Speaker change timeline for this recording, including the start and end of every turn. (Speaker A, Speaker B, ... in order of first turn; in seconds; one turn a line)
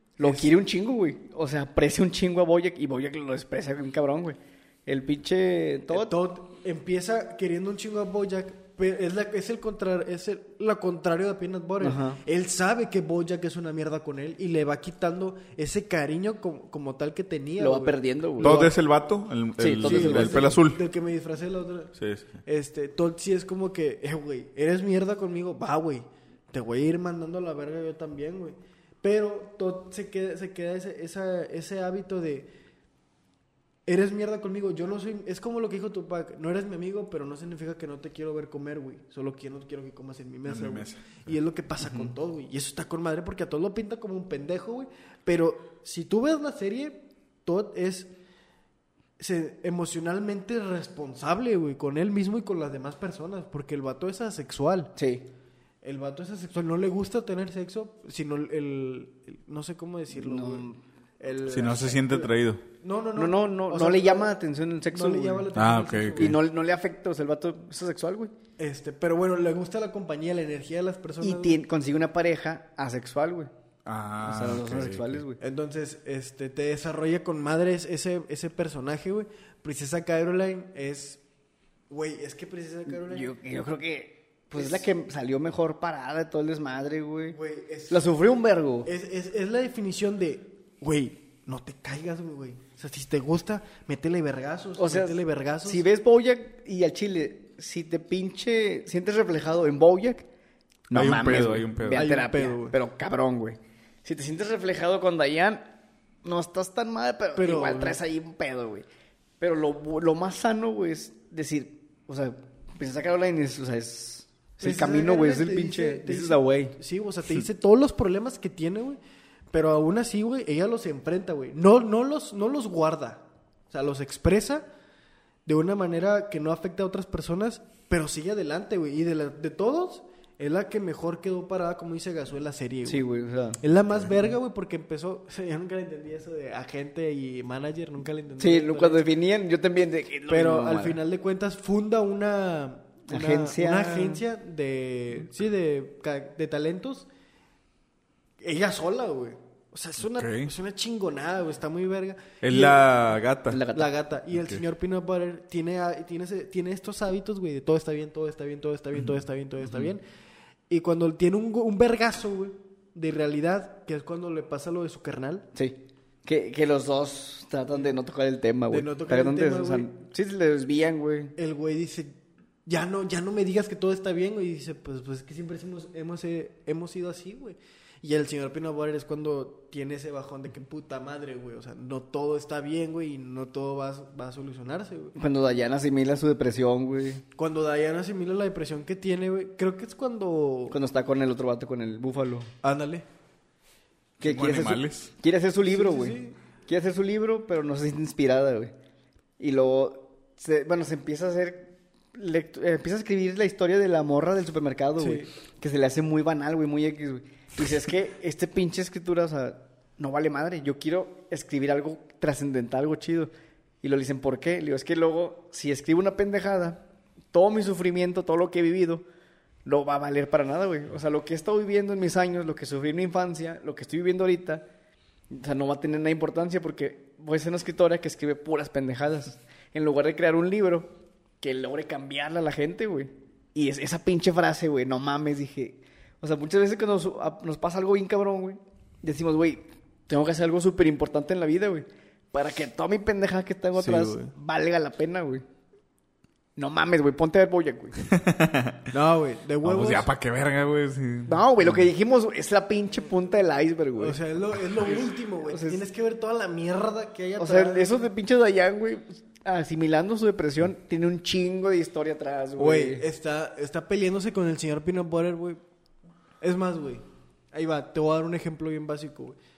Speaker A: 0.2-6.1
Speaker B: 0.2-0.5
Speaker B: 5.9-18.8
Speaker A: 11.8-12.2
Speaker A: 17.6-18.6
Speaker C: 18.4-20.8
Speaker A: 19.6-20.5
Speaker B: 19.8-32.5
Speaker C: 22.0-22.3
Speaker B: 33.9-48.1
Speaker C: 40.4-41.3
Speaker B: 49.2-54.9
Speaker A: 55.0-55.3
Speaker B: 55.8-60.7
Speaker A: 60.1-60.8
Speaker B: 61.2-62.3
Speaker C: 61.5-62.6
Speaker B: 62.8-64.4
Speaker A: 63.1-65.5
Speaker B: 64.9-66.4
Speaker C: 65.5-66.4
Speaker A: 66.1-68.3
Speaker B: 68.6-71.6
Speaker A: 71.2-73.5
Speaker C: 73.8-75.2
Speaker A: 74.2-75.4
Speaker B: 75.4-81.2
Speaker B: 81.9-83.3
Speaker A: 82.9-87.4
Speaker B: 84.5-84.9
Speaker B: 87.3-88.2
Speaker A: 87.9-88.9
Speaker B: 88.8-95.8
Speaker A: 94.8-100.2
Speaker A: 100.9-105.7
Speaker C: 100.9-102.0
Speaker B: 101.8-102.8
Speaker A: 106.2-108.8
Speaker B: 107.3-108.0
Speaker A: 109.4-116.8
Speaker B: 114.6-119.0
Speaker B: 119.5-124.7
Speaker B: 125.5-133.1
Speaker A: 132.8-133.6
Speaker B: 133.6-139.1
Speaker A: 138.4-141.0
Speaker B: 140.3-147.1
Speaker A: 143.1-144.2
Speaker B: 148.4-152.8
Speaker C: 150.0-150.5
Speaker C: 152.4-153.6
Speaker A: 153.5-153.9
Speaker B: 153.7-160.0
Speaker B: 160.7-165.5
Speaker A: 165.5-171.3
Speaker B: 168.7-169.9
Speaker B: 171.4-185.1
Speaker A: 185.1-187.2
Speaker B: 187.3-190.8
Speaker A: 190.7-192.5
Speaker B: 192.6-193.0
Speaker A: 194.2-198.7
Speaker C: 194.2-195.1
Speaker B: 195.7-196.3
Speaker A: 199.4-213.3
Speaker B: 205.0-205.3
Speaker A: 213.8-219.0
Speaker A: 219.7-224.6
Speaker A: 225.3-245.4
Speaker B: 243.7-244.3
Speaker A: 246.6-248.0
Speaker C: 248.0-248.9
Speaker B: 248.9-250.1
Speaker C: 249.6-251.9
Speaker A: 251.3-254.2
Speaker B: 254.0-258.1
Speaker A: 254.8-255.8
Speaker A: 257.4-263.0
Speaker B: 262.6-265.6
Speaker B: 266.4-269.4